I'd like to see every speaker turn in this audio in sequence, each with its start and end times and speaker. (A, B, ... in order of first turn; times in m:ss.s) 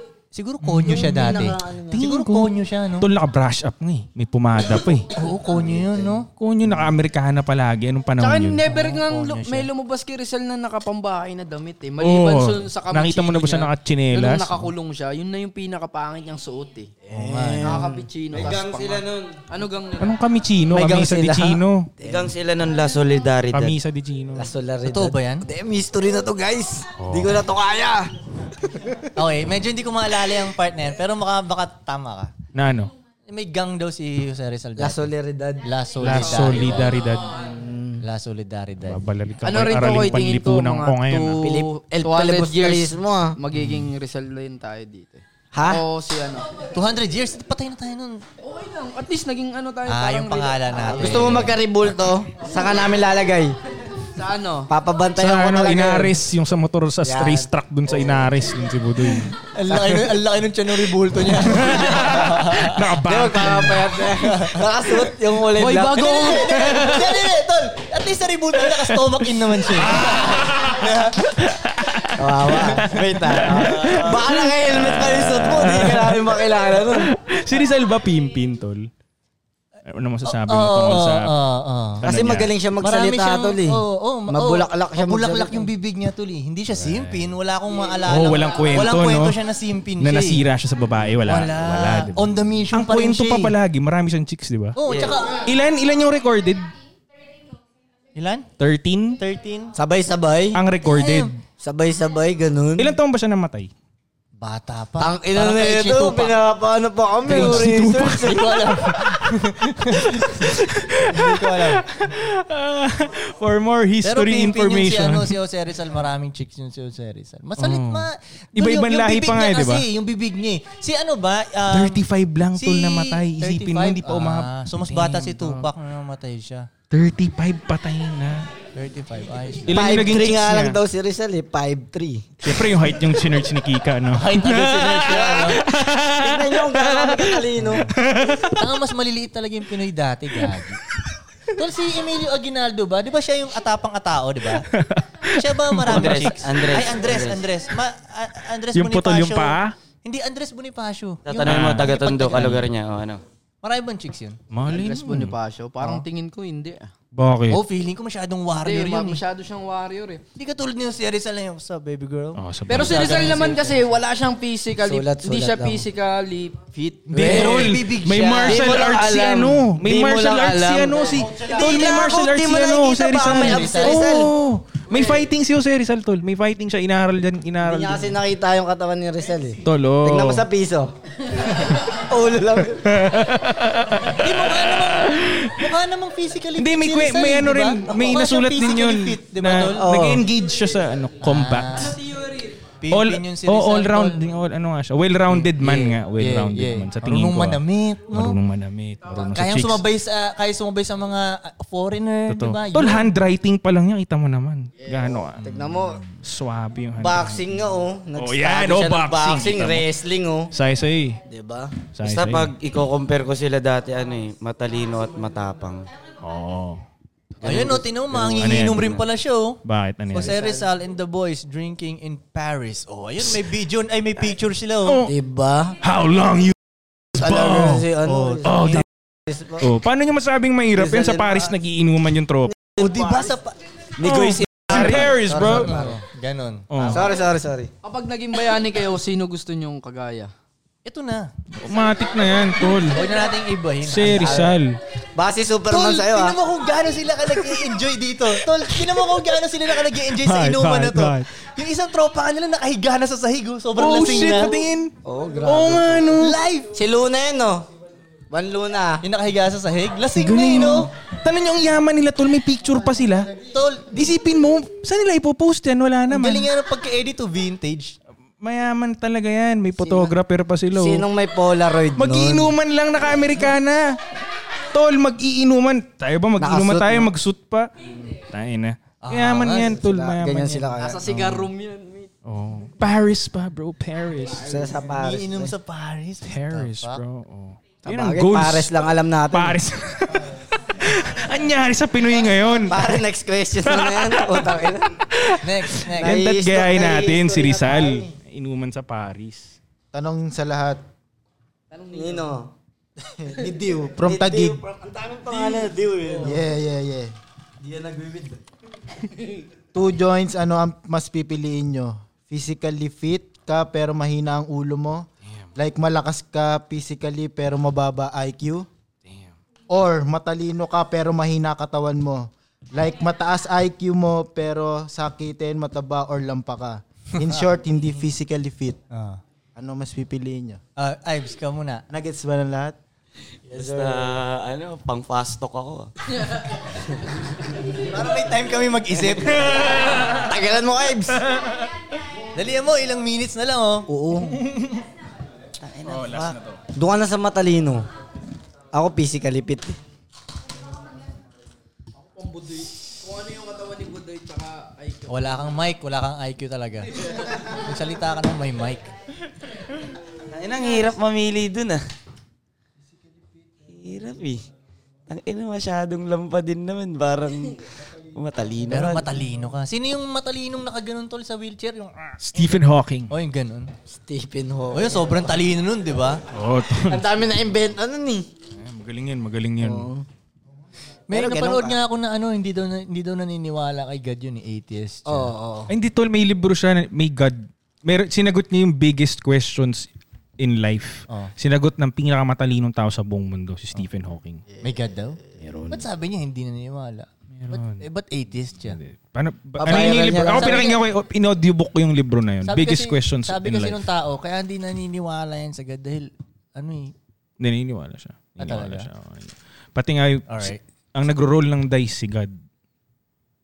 0:00.3-0:03.1 A
0:00.6-0:05.1 B
0:00.8-0:02.0 C
0:05.1-0:06.3 A
0:05.5-0:06.1 C
0:06.4-0:08.7 B
0:08.2-0:16.9 D
0:08.6-0:09.7 A
0:12.0-0:14.7 B
0:17.1-0:18.1 C
0:17.1-0:17.8 A
0:17.6-0:20.2 D
0:18.3-0:19.4 E
0:20.0-0:21.9 B
0:20.7-0:22.3 C
0:22.0-0:23.7 E
0:23.5-0:24.5 B
0:24.3-0:29.1 C
0:24.8-0:25.4 A
0:27.0-0:27.4 B
0:29.1-0:32.4 A
0:32.5-0:32.9 B
0:33.3-0:35.1 A
0:34.8-0:36.4 C
0:35.6-0:37.0 A
0:36.0-0:37.4 B
0:36.1-0:37.4 D
0:37.4-0:38.0 C
0:38.0-0:39.0 A
0:38.8-0:41.4 B
0:39.4-0:46.6 D
0:41.4-0:43.4 C
0:43.6-0:43.8 B
0:45.5-0:45.8 C
0:46.7-0:48.2 A
0:48.4-0:51.3 D
0:49.9-0:51.9 A
0:50.8-0:53.6 C
0:54.1-0:54.7 D
0:54.7-0:56.1 C
0:55.1-0:59.4 B
0:57.0-0:58.4 C
0:59.1-1:03.0 A
1:01.3-1:04.1 B
1:03.0-1:06.8 C
1:04.2-1:05.0 A
1:05.5-1:07.1 D
1:05.6-1:11.3 A
1:08.6-1:18.9 B
1:12.2-1:17.1 C
1:12.5-1:14.0 A
1:19.9-1:21.3 B
1:20.2-1:22.0 A
1:22.0-1:22.5 B
1:22.0-1:25.7 C
1:22.8-1:30.4 A
1:26.7-1:27.4 B
1:28.0-1:29.4 B
1:30.0-1:34.8 B
1:31.2-1:33.6 A
1:34.8-1:35.5 A
1:34.8-1:35.2 E
1:35.3-1:36.7 B
1:38.1-1:38.5 A
1:38.6-1:39.2 B
1:39.2-1:39.8 A
1:39.7-1:40.6 C
1:40.5-1:41.4 B
1:40.8-1:41.3 A
1:41.6-1:43.0 C
1:42.8-1:43.7 B
1:44.4-1:46.4 A
1:45.0-1:48.6 C
1:47.2-1:55.4 B
1:47.3-1:51.8 A
1:54.0-2:06.7 A
1:57.6-1:59.9 B
2:01.7-2:05.7 B
2:06.9-2:08.5 B
2:08.7-2:09.8 A
2:09.6-2:10.8 B
2:09.7-2:12.7 C
2:12.4-2:18.7 B
2:14.1-2:15.6 A
2:15.1-2:17.9 C
2:18.5-2:20.8 A
2:21.6-2:24.7 A
2:24.6-2:26.3 B
2:25.3-2:32.6 A
2:25.8-2:27.4 E
2:28.7-2:29.8 B
2:31.3-2:33.2 E
2:31.4-2:32.5 B
2:33.6-2:34.4 A
2:34.5-2:35.4 B
2:34.7-2:36.9 D
2:37.1-2:37.6 B
2:37.5-2:39.2 A
2:38.5-2:40.2 D
2:40.4-2:43.8 A
2:42.4-2:43.4 B
2:42.7-2:47.8 D
2:44.8-2:45.8 C
2:47.1-2:58.2 B
2:47.1-2:48.8 A
2:47.2-2:47.6 C
2:48.3-2:51.9 D
2:51.2-2:54.3 C
2:53.2-2:54.0 A
2:54.9-2:55.3 D
2:57.6-3:03.1 C
2:59.6-3:00.4 B
3:02.8-3:05.7 B
3:04.1-3:10.1 A
3:06.6-3:12.0 B
3:09.7-3:10.3 C
3:11.2-3:12.0 A
3:11.8-3:12.6 D
3:12.8-3:14.2 A
3:12.9-3:19.8 B
3:15.3-3:18.4 A
3:19.0-3:19.4 D
3:19.3-3:23.1 A
3:22.3-3:25.6 B
3:24.8-3:25.1 D
3:25.4-3:26.0 A
3:25.4-3:26.0 C
3:26.2-3:27.5 B
3:27.0-3:30.5 C
3:28.2-3:29.8 B
3:30.5-3:31.2 B
3:31.3-3:31.7 C
3:31.9-3:32.5 B
3:32.0-3:35.9 E
3:36.2-3:36.8 B
3:37.4-3:39.6 A
3:37.7-3:39.1 B
3:39.6-3:40.4 B
3:40.1-3:45.1 A
3:44.8-3:45.1 B
3:45.0-3:45.8 C
3:45.8-3:46.6 B
3:47.1-3:48.8 B
3:47.2-3:49.7 C
3:49.6-3:52.5 B
3:50.8-3:51.4 C
3:52.6-3:53.4 C
3:52.8-3:53.5 A
3:54.0-3:55.9 B
3:54.0-3:56.0 C
3:55.5-3:57.1 A
3:56.7-3:57.1 B
3:56.9-3:57.7 C
3:57.8-4:00.3 D
4:00.8-4:01.3 A
4:01.6-4:03.2 B
4:02.8-4:04.5 A
4:03.8-4:04.8 B
4:04.1-4:04.6 C
4:05.1-4:06.4 C
4:05.7-4:14.6 A
4:08.8-4:09.2 B
4:10.0-4:11.3 B
4:13.8-4:16.4 B
4:15.0-4:16.2 C
4:16.2-4:16.7 A
4:16.7-4:17.7 C
4:18.3-4:19.0 C
4:19.0-4:20.9 A
4:20.1-4:23.3 B
4:23.4-4:23.9 A
4:23.8-4:26.5 B
4:26.1-4:28.0 A
4:28.4-4:31.0 B
4:29.8-4:30.1 C
4:30.7-4:32.6 C
4:31.9-4:34.0 B
4:34.7-4:37.7 B
4:36.4-4:37.1 C
4:38.3-4:40.8 B
4:39.0-4:39.8 A
4:39.6-4:41.0 C
4:40.7-4:42.1 D
4:41.1-4:41.4 A
4:42.2-4:44.5 B
4:44.3-4:45.6 C
4:44.8-4:47.0 A
4:46.2-4:48.8 B
4:47.8-4:49.6 C
4:49.3-4:53.0 B
4:52.6-4:55.1 C
4:53.6-4:54.6 B
4:55.1-4:59.6 B
4:55.4-4:56.3 A
4:56.0-4:58.0 C
4:59.9-5:00.8 F
5:01.7-5:02.3 D
5:01.9-5:02.5 C
5:03.2-5:04.6 F
5:04.0-5:06.4 C
5:06.2-5:07.1 F
5:07.6-5:08.4 C
5:09.7-5:18.7 F
5:19.7-5:28.8 F
5:27.2-5:27.5 A
5:28.9-5:29.2 A
5:29.6-5:30.6 F
5:30.8-5:31.8 A
5:31.9-5:32.7 F
5:33.5-5:35.9 E
5:33.5-5:34.1 C
5:37.6-5:39.9 A
5:39.5-5:40.0 B
5:40.1-5:41.2 C
5:42.3-5:44.9 A
5:43.9-5:44.4 C
5:45.6-5:46.4 E
5:45.9-5:46.6 B
5:46.7-5:47.9 C
5:48.7-5:49.8 C
5:52.2-5:55.4 D
5:55.1-5:58.9 A
6:00.3-6:01.8 E
6:03.7-6:04.4 E
6:05.1-6:09.1 E
6:08.7-6:12.2 A
6:12.2-6:13.1 B
6:13.1-6:13.7 A
6:13.9-6:15.1 C
6:14.7-6:16.2 A
6:16.3-6:17.0 B
6:16.8-6:18.3 C
6:18.6-6:19.9 B
6:19.6-6:20.0 C
6:21.1-6:25.3 A
6:21.1-6:21.8 C
6:25.1-6:25.7 C
6:25.7-6:34.4 B
6:34.6-6:38.8 A
6:35.4-6:35.8 B
6:37.3-6:37.8 B
6:38.6-6:43.8 B
6:39.6-6:40.8 C
6:42.4-6:46.9 A
6:47.4-6:52.3 B
6:48.4-6:48.9 A
6:50.3-6:50.6 A